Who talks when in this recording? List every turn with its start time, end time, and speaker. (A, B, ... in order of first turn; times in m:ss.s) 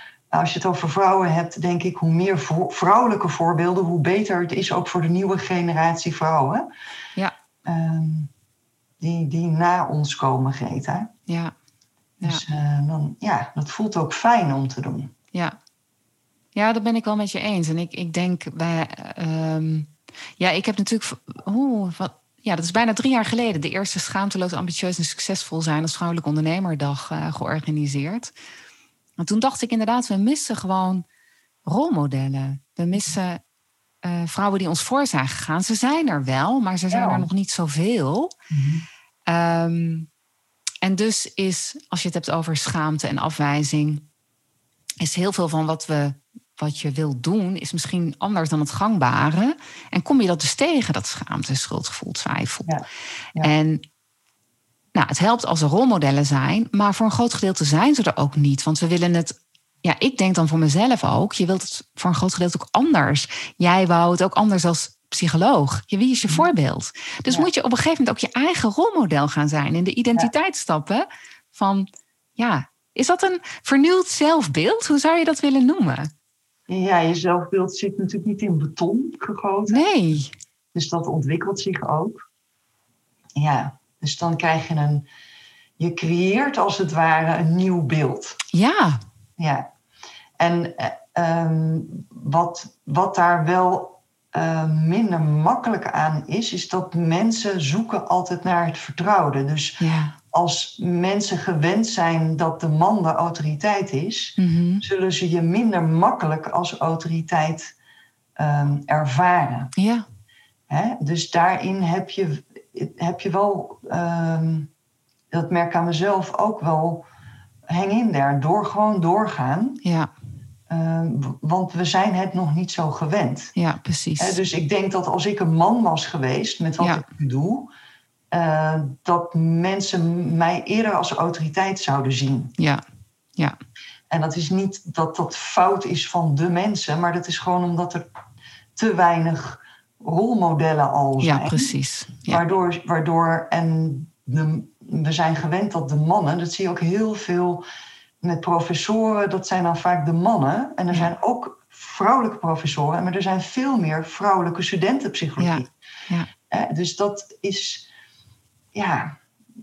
0:00.3-0:06.7 A
0:07.6-0:08.3 A
0:09.0-0:11.1 A
0:11.3-0:11.5 B
0:12.2-0:15.1 A
0:16.6-0:28.3 B
0:29.2-0:31.0 B
0:31.7-0:33.4 B
0:34.0-0:38.3 B
0:36.9-0:37.3 A
0:38.5-0:38.8 A
0:39.3-0:40.1 B
0:40.8-0:44.1 B
0:45.0-0:52.8 B
0:52.6-0:53.5 A
0:53.4-0:53.8 B
0:55.0-1:16.1 B
1:16.7-1:19.8 A
1:19.7-1:20.3 B
1:20.7-1:22.2 A
1:23.4-1:25.1 A
1:25.8-1:28.4 A
1:28.5-1:29.0 B
1:29.4-1:29.7 A
1:30.4-1:47.7 A
1:39.8-1:40.2 B
1:44.4-1:44.9 B
1:48.4-1:49.7 A
1:49.8-1:50.0 B
1:50.7-1:54.7 A
1:55.3-1:57.0 A
1:57.7-1:59.8 A
1:59.8-2:00.1 B
2:00.7-2:03.5 A
2:03.6-2:04.4 B
2:04.2-2:07.7 A
2:08.3-2:12.6 A
2:12.6-2:12.8 B
2:14.1-2:18.0 A
2:18.8-2:21.7 A
2:21.2-2:22.4 B
2:22.3-2:27.6 A
2:28.2-2:35.7 A
2:35.4-2:36.3 B
2:36.5-2:37.8 A
2:38.7-2:39.2 A